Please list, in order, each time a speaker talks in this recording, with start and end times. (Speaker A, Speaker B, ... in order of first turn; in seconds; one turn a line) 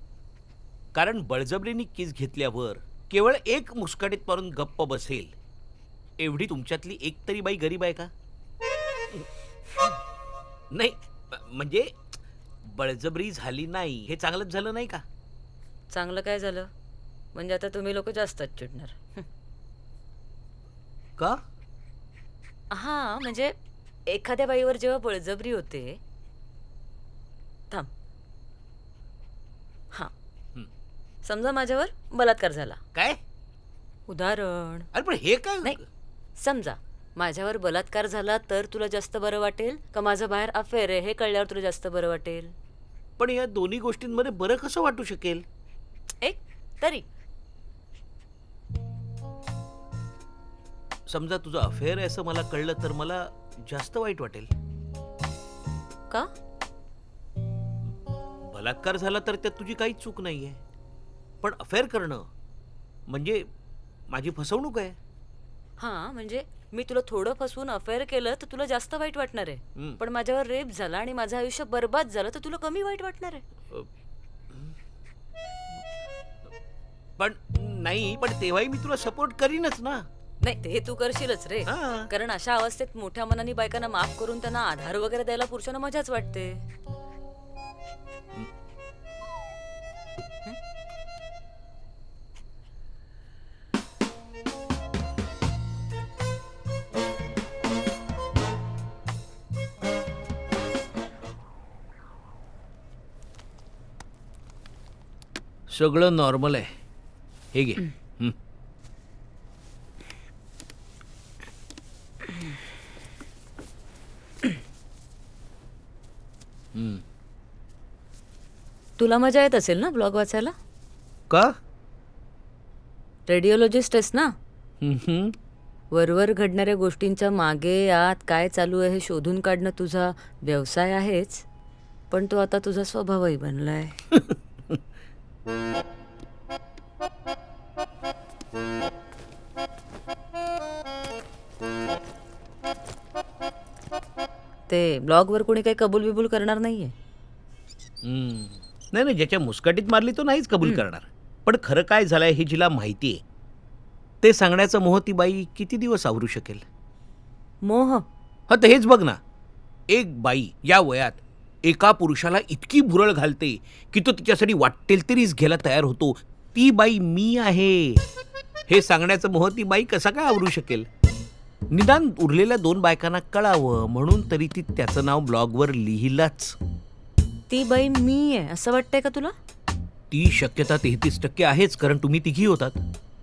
Speaker A: 0.9-5.3
Speaker A: 6.2-8.1
Speaker A: 10.7-11.9
Speaker A: 12.6-15.0
Speaker B: 15.9-16.7
Speaker B: 17.3-19.2
Speaker B: 22.7-23.5
Speaker B: 24.1-26.0
Speaker B: 31.2-32.8
Speaker A: 32.9-33.2
Speaker B: 34.1-34.9
Speaker A: 34.9-35.8
Speaker B: 36.4-42.5
Speaker A: 43.2-45.4
Speaker B: 46.2-47.0
Speaker A: 51.1-54.5
Speaker A: 58.4-60.6
Speaker A: 61.4-62.3
Speaker A: 63.1-63.5
Speaker A: 64.1-65.0
Speaker B: 65.8-73.4
Speaker A: 74.5-74.8
Speaker A: 77.2-80.0
Speaker B: 80.4-86.6
Speaker A: 81.7-82.1
Speaker A: 105.7-106.7
Speaker A: 107.5-108.3
Speaker A: 116.7-117.0
Speaker B: 119.0-120.5
Speaker B: 123.3-124.3
Speaker A: 124.8-125.3
Speaker B: 125.9-131.4
Speaker B: 132.1-133.9
Speaker A: 134.2-134.8
Speaker B: 144.7-146.9
Speaker A: 148.0-153.2
Speaker A: 154.2-156.6
Speaker B: 157.6-158.0
Speaker A: 158.5-159.2
Speaker A: 159.9-168.0
Speaker A: 168.7-170.9
Speaker A: 171.7-176.6
Speaker B: 177.5-179.3
Speaker A: 180.1-182.8